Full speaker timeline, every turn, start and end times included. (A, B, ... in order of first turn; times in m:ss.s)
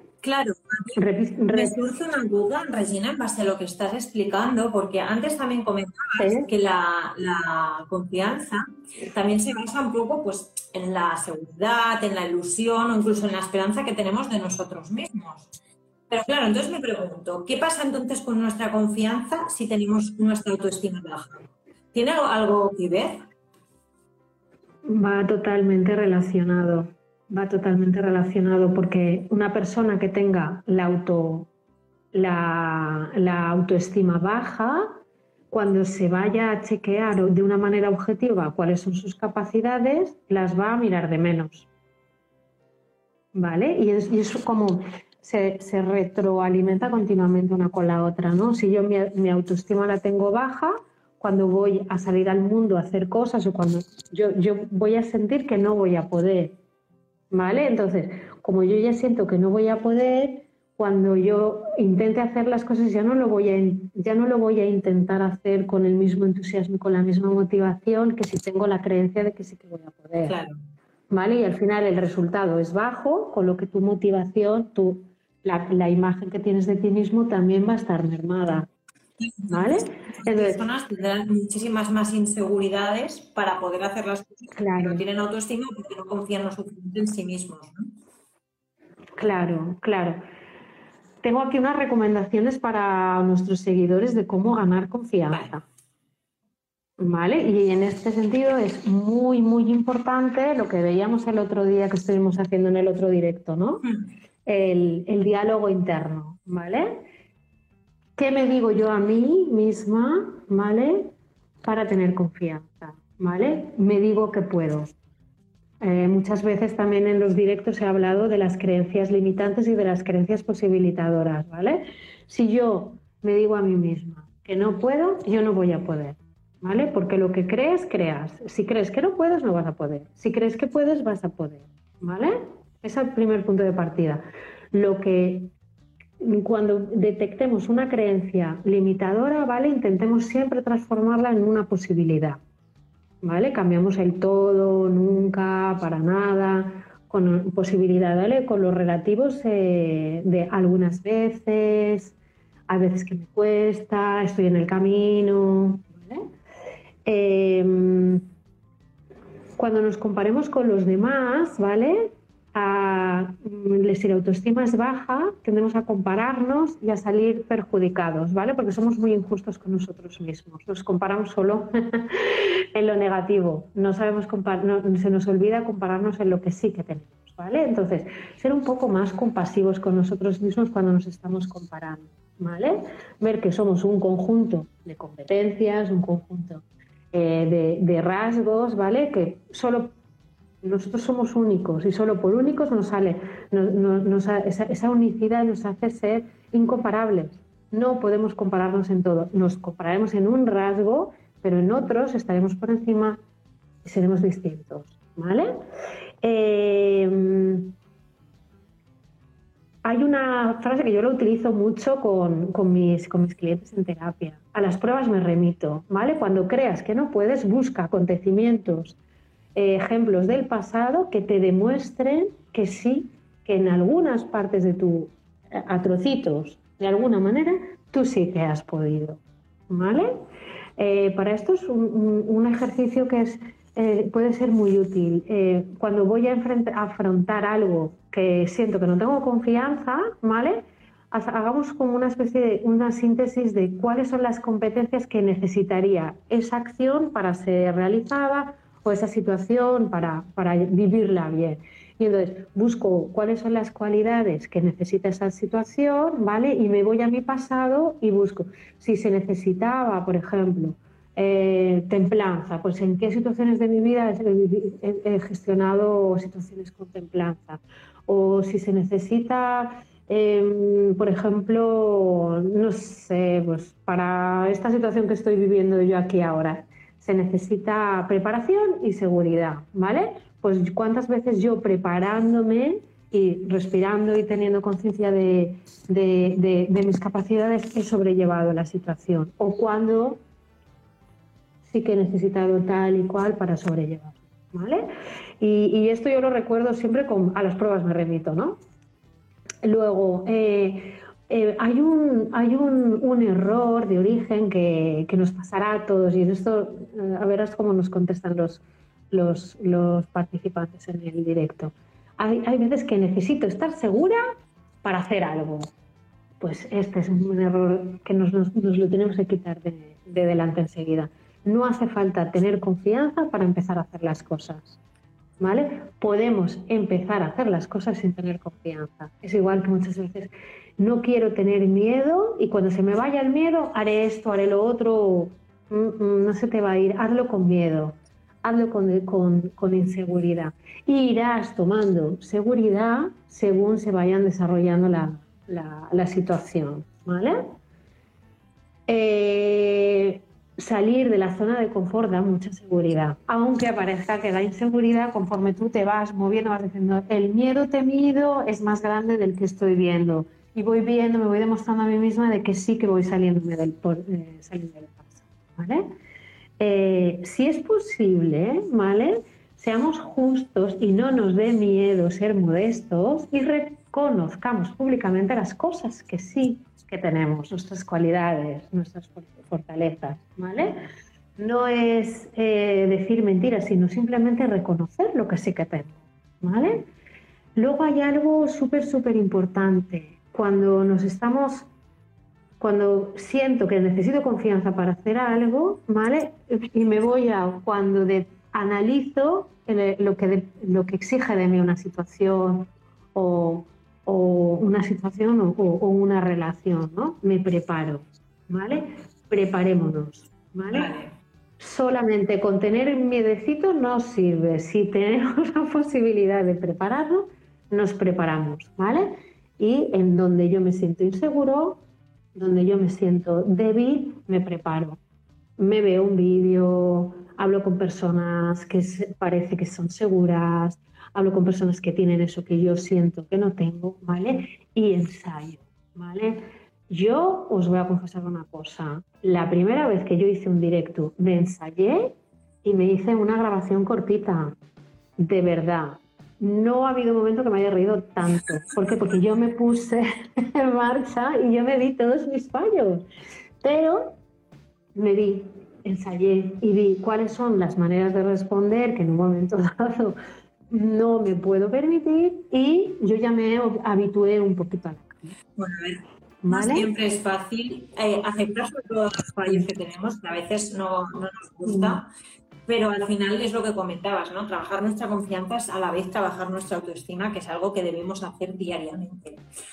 0:00.2-0:01.0 A
0:01.0-0:01.8 B
0:01.5-0:15.5 A
0:06.2-0:06.5 B
0:16.1-0:23.2 A
0:24.8-0:31.5 B
0:32.1-0:41.7 B
0:43.3-0:56.6 B
0:57.3-1:10.4 B
1:10.3-1:10.6 A
1:11.1-1:18.7 B
1:19.2-1:27.9 A
1:19.5-1:20.6 B
1:24.5-1:25.0 B
1:29.2-1:30.2 B
1:31.2-1:35.6 B
1:35.3-1:35.6 A
1:37.0-1:43.9 B
1:44.5-1:47.0 B
1:48.2-1:51.1 B
1:51.6-1:54.9 B
1:55.8-2:15.5 B
2:16.2-2:22.4 B
2:23.2-2:32.2 B
2:32.7-2:36.3 B
2:37.1-2:38.3 B
2:39.6-3:10.0 B
3:10.6-3:23.2 B
3:23.8-3:25.6 B
3:26.2-3:27.8 B
3:29.8-3:39.0 B
3:39.6-3:50.2 B
3:50.8-4:50.2 B
4:51.7-4:54.9 B
4:55.4-4:58.6 B
4:59.6-5:14.2 B
5:14.8-5:15.7 B
5:16.4-5:24.8 B
5:25.4-5:47.6 B
5:48.9-6:05.9 B
6:06.6-6:20.8 B
6:21.4-6:26.9 B
6:27.6-6:31.7 B
6:32.6-6:50.9 B
6:50.7-6:51.2 A
6:51.6-7:01.8 B
7:02.4-7:05.0 B
7:05.6-7:24.6 B
7:25.2-7:33.1 B
7:33.6-7:34.2 B
7:35.0-7:40.2 B
7:40.7-7:45.4 B
7:45.6-7:52.1 A
7:46.4-7:46.9 B
7:49.4-7:49.7 B
7:51.7-7:52.0 B
7:52.7-7:59.4 A